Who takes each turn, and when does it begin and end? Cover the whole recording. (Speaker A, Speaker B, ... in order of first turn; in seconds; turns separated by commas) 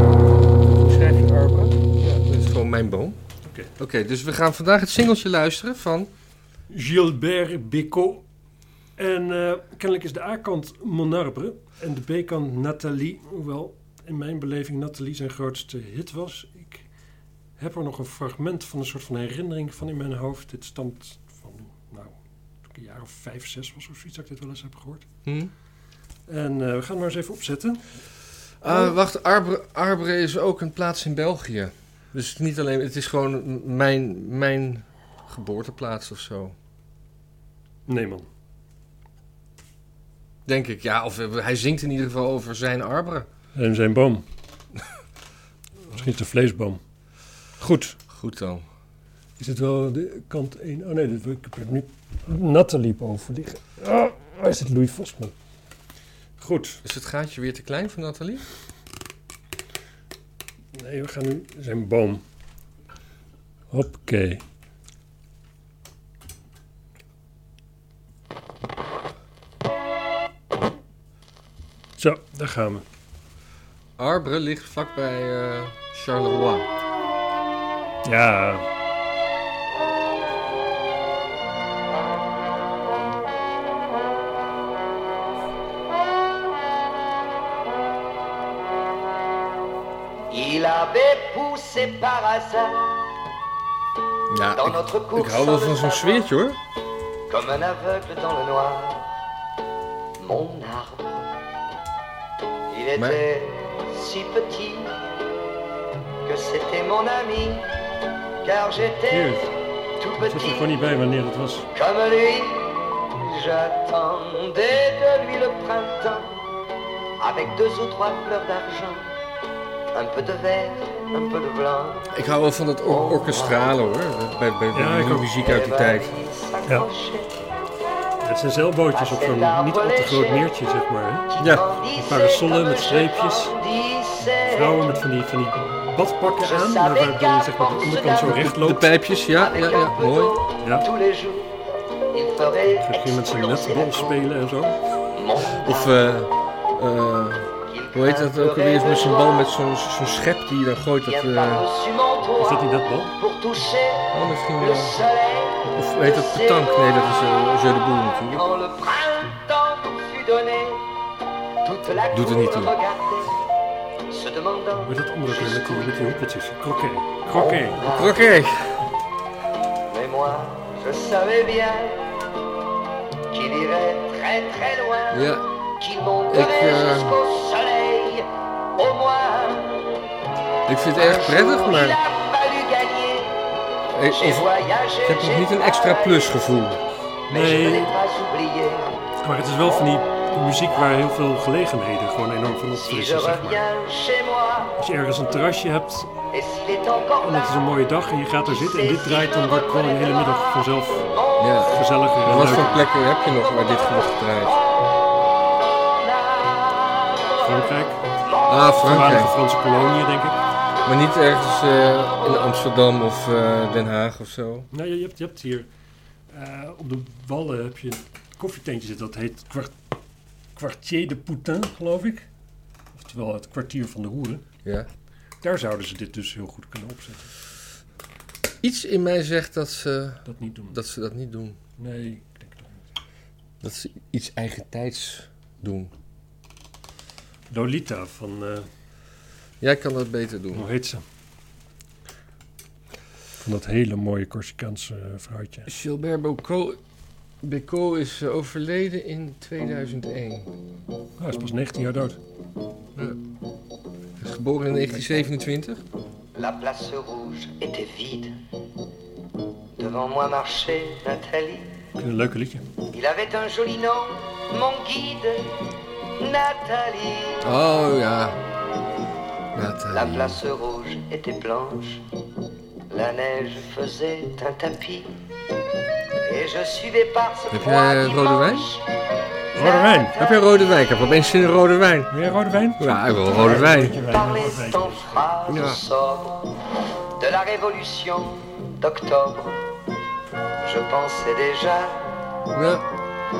Speaker A: 0.7-3.2, Speaker B: 3.4-3.7, Speaker A: 3.8-6.1, Speaker B: 6.7-8.2, Speaker B: 9.0-16.8, Speaker B: 17.6-22.1, Speaker B: 22.7-25.1, Speaker A: 25.2-25.5, Speaker B: 26.3-27.9, Speaker A: 28.6-36.5, Speaker B: 28.7-28.9, Speaker B: 37.9-38.2, Speaker A: 40.5-43.3, Speaker B: 43.5-44.2, Speaker B: 45.9-46.8, Speaker B: 47.6-48.0, Speaker A: 48.1-48.6, Speaker B: 49.4-55.3, Speaker B: 56.4-56.8, Speaker A: 56.8-58.5, Speaker B: 60.7-62.2, Speaker B: 63.7-64.4, Speaker B: 72.0-72.8, Speaker A: 74.0-76.7, Speaker B: 78.0-78.6, Speaker C: 90.3-92.9, Speaker A: 94.3-96.6, Speaker C: 94.5-96.3, Speaker C: 97.3-99.2, Speaker C: 100.2-101.3, Speaker C: 102.7-105.1, Speaker A: 103.0-103.2, Speaker C: 106.2-107.7, Speaker C: 108.4-109.4, Speaker B: 109.1-109.5, Speaker C: 110.0-110.7, Speaker B: 110.2-111.7, Speaker C: 111.7-116.5, Speaker C: 117.2-119.2, Speaker C: 119.9-122.1, Speaker A: 122.1-126.1, Speaker C: 122.8-123.8, Speaker B: 124.7-125.3, Speaker C: 125.4-127.3, Speaker B: 128.2-133.5, Speaker C: 128.9-130.5, Speaker C: 131.3-134.8, Speaker A: 131.4-131.6, Speaker B: 134.5-138.9, Speaker C: 136.4-138.5, Speaker A: 138.2-140.3, Speaker C: 139.3-141.5, Speaker B: 140.6-140.9, Speaker C: 142.1-144.2, Speaker B: 142.8-144.8, Speaker C: 145.1-146.0, Speaker A: 145.6-151.7, Speaker C: 147.7-149.5, Speaker C: 151.0-156.9, Speaker B: 152.4-153.2, Speaker A: 154.1-155.0, Speaker A: 155.7-158.4, Speaker C: 158.3-160.9, Speaker C: 161.6-163.3, Speaker A: 162.1-162.7, Speaker C: 164.1-166.2, Speaker B: 164.8-167.8, Speaker C: 167.3-168.3, Speaker A: 167.9-168.9, Speaker C: 169.9-172.1, Speaker C: 173.3-175.3, Speaker A: 175.1-175.4, Speaker C: 175.8-180.1, Speaker A: 176.3-177.2, Speaker A: 180.7-182.0, Speaker C: 180.9-183.6, Speaker A: 183.9-184.5, Speaker C: 184.1-186.5, Speaker A: 185.0-186.8, Speaker C: 187.3-189.1, Speaker B: 187.3-187.9, Speaker B: 189.2-193.7, Speaker C: 189.6-190.0, Speaker C: 190.6-191.1, Speaker C: 192.7-194.8, Speaker B: 194.8-196.1, Speaker C: 196.3-197.6, Speaker B: 197.2-201.1, Speaker C: 198.4-200.6, Speaker C: 201.1-201.7, Speaker A: 201.4-204.6, Speaker B: 201.7-202.9, Speaker C: 203.4-204.9, Speaker C: 205.9-207.7, Speaker B: 207.4-208.0, Speaker C: 208.2-208.7, Speaker A: 208.5-209.3, Speaker B: 208.8-210.4, Speaker A: 210.8-214.7, Speaker B: 214.7-215.7, Speaker B: 216.3-219.7, Speaker B: 220.6-222.2, Speaker B: 222.9-224.4, Speaker B: 225.4-227.3, Speaker A: 228.6-231.6, Speaker B: 230.2-230.8, Speaker B: 231.8-232.8, Speaker A: 233.6-235.9, Speaker B: 237.5-238.7, Speaker A: 239.6-240.7, Speaker B: 240.5-241.0, Speaker B: 243.4-245.7, Speaker A: 245.7-246.8, Speaker A: 247.4-250.5, Speaker B: 251.2-252.2, Speaker A: 254.2-255.8, Speaker C: 256.3-258.4, Speaker C: 259.8-261.8, Speaker B: 262.0-262.6, Speaker C: 262.9-265.5, Speaker C: 266.2-267.5, Speaker A: 267.4-268.4, Speaker A: 269.5-270.3, Speaker C: 269.9-272.0, Speaker C: 272.9-275.2, Speaker C: 276.2-278.8, Speaker A: 277.5-278.7, Speaker B: 279.5-280.2, Speaker C: 279.5-280.4, Speaker A: 280.2-282.1, Speaker B: 282.1-285.3, Speaker A: 282.8-284.0, Speaker C: 283.8-286.5, Speaker A: 285.5-285.8, Speaker C: 287.1-289.6, Speaker C: 290.6-292.1, Speaker A: 292.5-292.9